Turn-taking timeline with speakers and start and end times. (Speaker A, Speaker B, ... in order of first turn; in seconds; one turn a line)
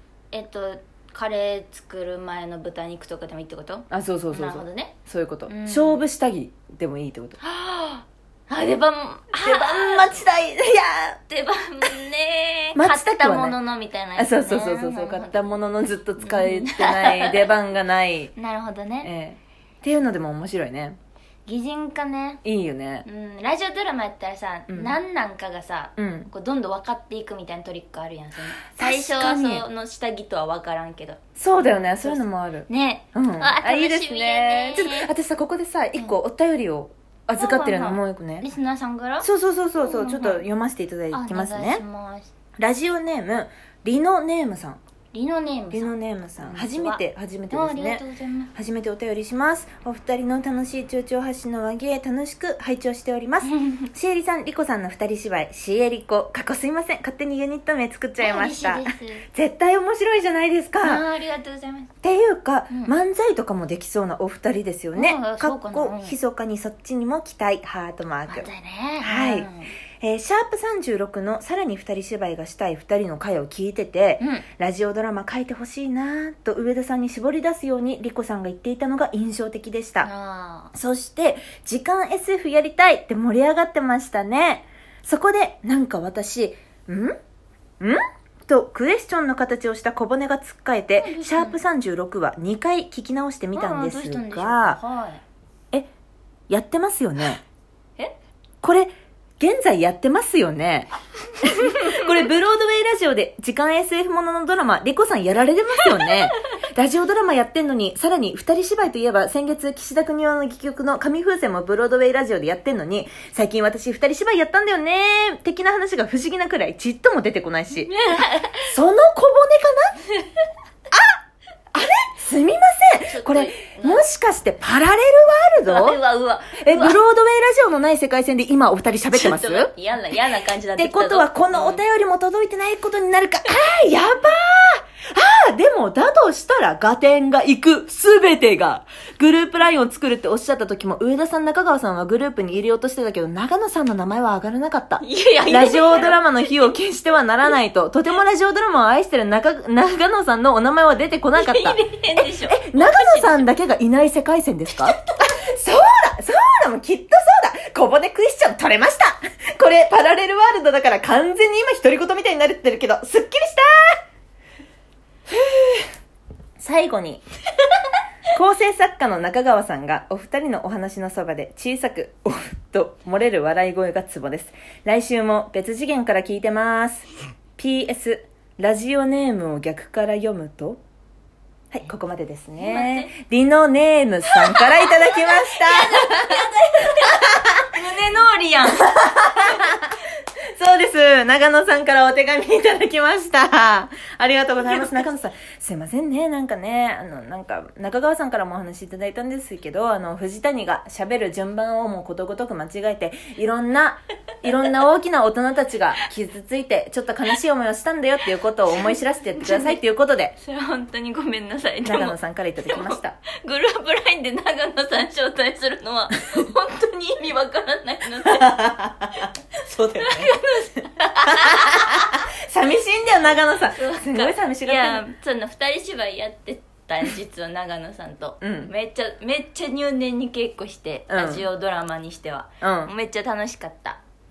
Speaker A: 0.3-4.9
Speaker B: 3.9-7.4
Speaker A: 5.5-6.0
Speaker A: 7.4-10.2
Speaker B: 9.4-11.2
Speaker A: 11.3-15.5
Speaker B: 12.7-13.6
Speaker B: 14.2-18.3
Speaker A: 16.2-17.5
Speaker A: 18.4-19.1
Speaker B: 19.0-21.0
Speaker A: 21.4-22.4
Speaker B: 22.4-23.1
Speaker A: 23.0-35.1
Speaker B: 24.7-25.0
Speaker B: 26.0-26.3
Speaker B: 28.7-29.6
Speaker B: 31.4-38.5
Speaker A: 37.3-39.3
Speaker B: 39.2-41.8
Speaker A: 39.8-40.4
Speaker A: 41.1-42.3
Speaker B: 42.6-44.8
Speaker A: 45.1-48.5
Speaker B: 45.7-48.0
Speaker B: 48.5-61.0
Speaker A: 53.4-53.9
Speaker A: 58.2-59.3
Speaker A: 60.8-61.9
Speaker B: 62.0-68.5
Speaker A: 64.9-66.2
Speaker A: 68.3-69.7
Speaker B: 69.0-69.5
Speaker B: 70.0-80.1
Speaker A: 74.2-74.5
Speaker A: 80.0-80.7
Speaker B: 80.7-87.2
Speaker B: 87.8-94.8
Speaker A: 91.0-91.6
Speaker A: 93.5-95.2
Speaker B: 96.5-97.4
Speaker B: 98.6-100.9
Speaker B: 101.4-117.9
Speaker A: 101.7-102.0
Speaker A: 105.8-106.2
Speaker A: 117.9-118.7
Speaker B: 118.6-120.0
Speaker A: 120.2-120.4
Speaker B: 120.9-121.2
Speaker B: 121.7-126.0
Speaker A: 123.1-124.0
Speaker A: 125.7-127.0
Speaker B: 126.6-129.7
Speaker A: 129.1-131.8
Speaker B: 130.8-164.0
Speaker A: 145.0-146.7
Speaker A: 151.3-153.5
Speaker A: 154.7-155.4
Speaker B: 165.3-165.9
Speaker B: 166.6-167.2
Speaker B: 168.3-177.1
Speaker B: 177.6-180.8
Speaker B: 181.7-186.5
Speaker A: 182.6-183.1
Speaker A: 184.2-188.8
Speaker B: 187.0-187.7
Speaker B: 188.8-189.9
Speaker B: 190.5-210.3
Speaker A: 209.4-209.8
Speaker A: 210.4-218.6
Speaker B: 211.8-213.1
Speaker B: 218.3-220.3
Speaker A: 219.9-222.2
Speaker B: 222.4-225.0
Speaker A: 223.7-234.0
Speaker B: 228.4-228.7
Speaker B: 231.1-231.5
Speaker B: 232.6-232.9